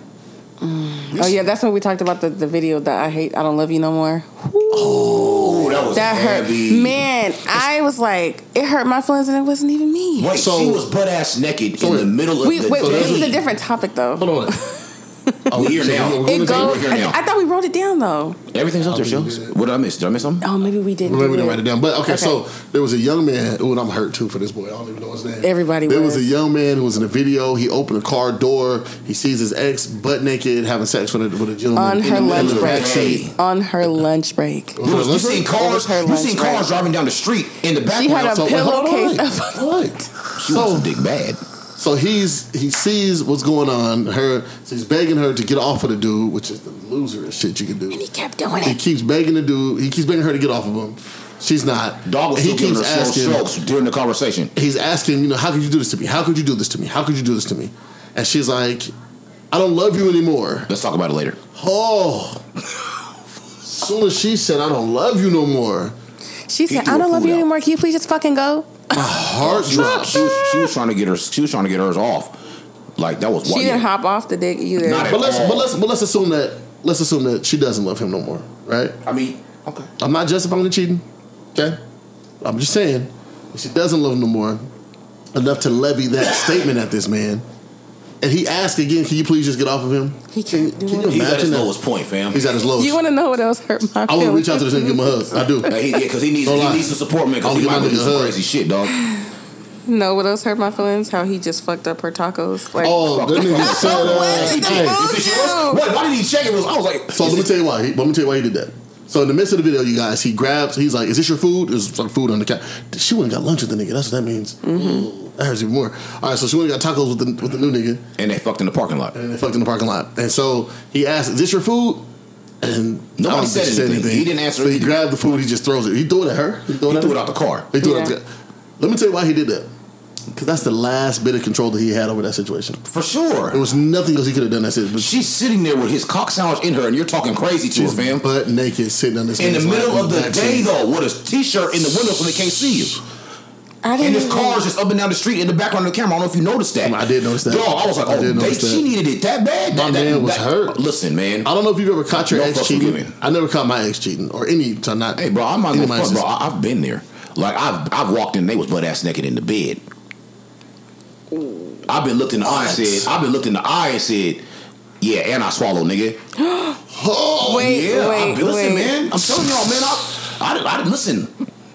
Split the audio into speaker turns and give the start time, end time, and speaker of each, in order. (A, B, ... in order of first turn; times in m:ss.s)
0:00.6-0:10.3 A
0:04.8-0:05.7 B
0:04.8-0:07.0 C
0:10.2-0:13.4 C
0:10.3-0:10.9 B
0:11.8-0:12.1 B
0:12.4-0:14.7 A
0:12.7-0:13.4 B
0:14.2-0:14.6 B
0:15.5-0:16.8 B
0:15.5-0:17.2 C
0:16.2-0:18.4 A
0:18.5-0:20.5 C
0:18.8-0:19.6 B
0:20.4-0:22.4 A
0:21.0-0:33.2 B
0:25.4-0:26.3 A
0:31.8-0:34.8 A
0:32.0-0:33.4 C
0:34.8-0:35.5 B
0:34.8-0:38.6 C
0:35.4-0:36.7 A
0:37.9-0:39.7 A
0:38.2-0:40.9 B
0:40.4-0:41.4 C
0:41.8-0:48.1 B
0:47.9-0:48.8 A
0:48.6-0:53.5 B
0:52.0-0:54.5 C
0:54.5-0:58.9 B
0:59.5-1:00.7 B
1:00.7-1:01.4 C
1:01.5-1:02.4 B
1:03.6-1:05.9 B
1:06.5-1:09.0 A
1:06.7-1:07.4 C
1:08.9-1:10.2 B
1:09.4-1:12.3 C
1:09.8-1:10.7 A
1:13.0-1:13.8 C
1:13.4-1:15.2 A
1:14.8-1:15.7 C
1:15.1-1:19.0 B
1:19.0-1:19.9 C
1:20.0-1:21.8 B
1:22.4-1:24.6 B
1:25.3-1:27.4 B
1:28.2-1:31.7 B
1:30.3-1:31.1 A
1:31.0-1:32.4 C
1:32.3-1:33.0 B
1:32.7-1:35.7 A
1:34.1-1:35.7 B
1:35.6-1:38.9 C
1:36.4-1:38.4 B
1:39.9-1:45.8 A
1:42.8-1:45.1 B
1:43.0-1:47.5 C
1:47.1-1:58.0 B
1:54.6-1:55.1 A
1:58.2-1:59.1 C
1:59.1-2:02.0 B
2:02.6-2:07.2 B
2:03.2-2:04.9 C
2:06.9-2:07.7 C
2:07.7-2:08.2 B
2:07.8-2:08.1 A
2:08.8-2:09.7 B
2:10.3-2:12.8 B
2:12.8-2:13.6 C
2:13.5-2:15.1 B
2:15.0-2:18.2 C
2:17.7-2:20.7 B
2:19.4-2:23.0 C
2:23.8-2:24.6 A
2:24.0-2:31.5 C
2:26.8-2:28.9 B
2:29.7-2:30.8 B
2:31.4-2:36.3 B
2:32.1-2:33.2 C
2:35.2-2:39.8 C
2:41.9-2:44.4 C
2:42.4-2:43.1 B
2:45.0-2:46.2 C
2:46.4-2:46.8 A
2:46.9-2:47.7 B
2:47.4-2:49.0 A
2:47.4-2:51.3 C